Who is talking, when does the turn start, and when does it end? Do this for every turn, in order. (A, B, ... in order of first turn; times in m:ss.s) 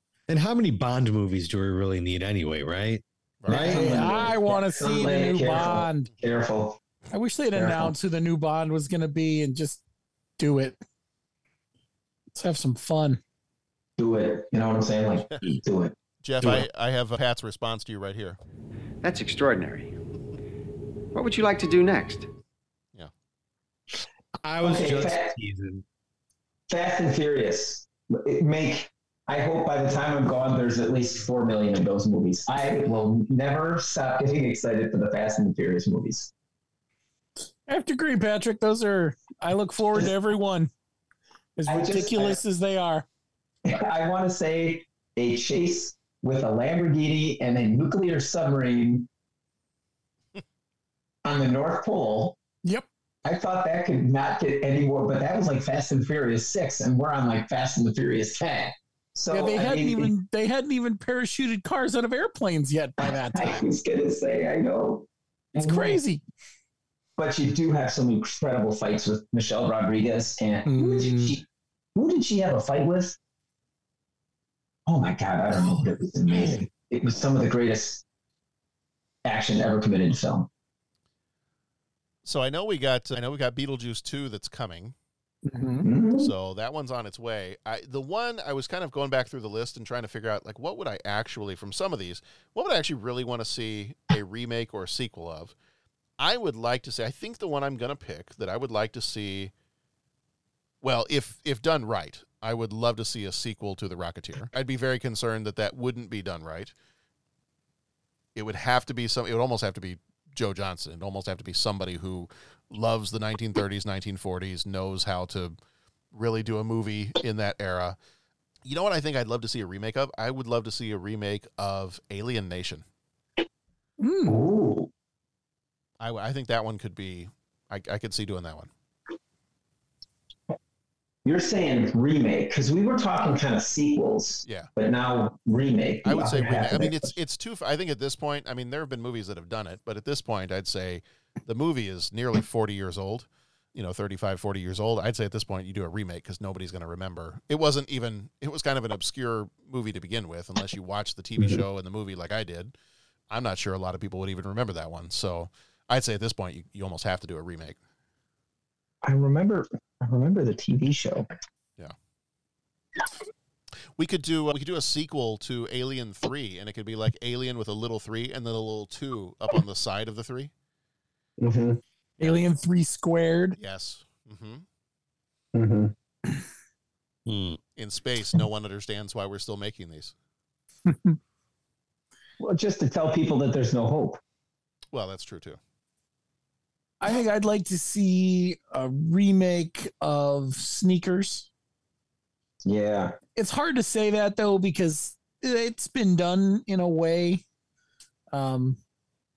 0:00.3-0:04.6 A
0:03.4-0:03.8 B
0:03.5-0:06.8 C
0:03.7-0:06.1 D
0:07.1-0:09.8 D
0:07.5-0:07.9 C
0:10.4-0:10.8 D
0:12.3-0:13.2 D
0:14.0-0:15.9 C
0:16.2-0:18.4 B
0:16.4-0:16.6 A
0:19.0-0:19.9 E
0:21.1-0:22.3 E
0:24.4-0:25.8 A
0:24.6-0:25.3 C
0:26.7-0:36.3 C
0:37.7-0:40.7 D
0:41.6-0:43.0 D
0:41.7-0:42.4 C
0:43.6-0:49.1 C
0:51.2-0:52.4 C
0:53.2-1:00.1 C
0:59.3-1:03.6 D
1:03.0-1:06.0 C
1:05.6-1:06.2 D
1:07.2-1:11.4 C
1:10.7-1:11.4 D
1:11.9-1:13.2 C
1:14.8-1:18.0 C
1:19.2-1:20.5 C
1:22.2-1:24.9 B
1:25.4-1:25.9 D
1:25.8-1:26.3 C
1:26.2-1:35.5 B
1:36.2-1:39.5 B
1:40.8-1:46.7 B
1:48.4-1:55.6 B
1:56.1-1:58.0 B
1:58.6-2:02.8 B
2:04.0-2:04.4 D
2:04.3-2:04.9 C
2:06.0-2:08.7 B
2:11.2-2:17.1 C
2:14.4-2:14.7 B
2:16.0-2:32.7 B
2:33.3-2:37.8 B
2:39.0-2:41.2 C
2:44.0-2:50.5 B
2:51.4-2:51.8 C
2:52.2-2:53.6 D
2:53.6-2:54.6 B
2:55.5-2:55.9 C
2:57.2-2:57.6 A
2:57.8-3:00.1 B
3:00.9-3:01.2 D
3:02.4-3:04.2 C
3:04.9-3:05.6 B
3:07.0-3:11.5 D
3:12.6-3:13.2 C
3:13.4-3:17.4 D
3:18.3-3:18.8 D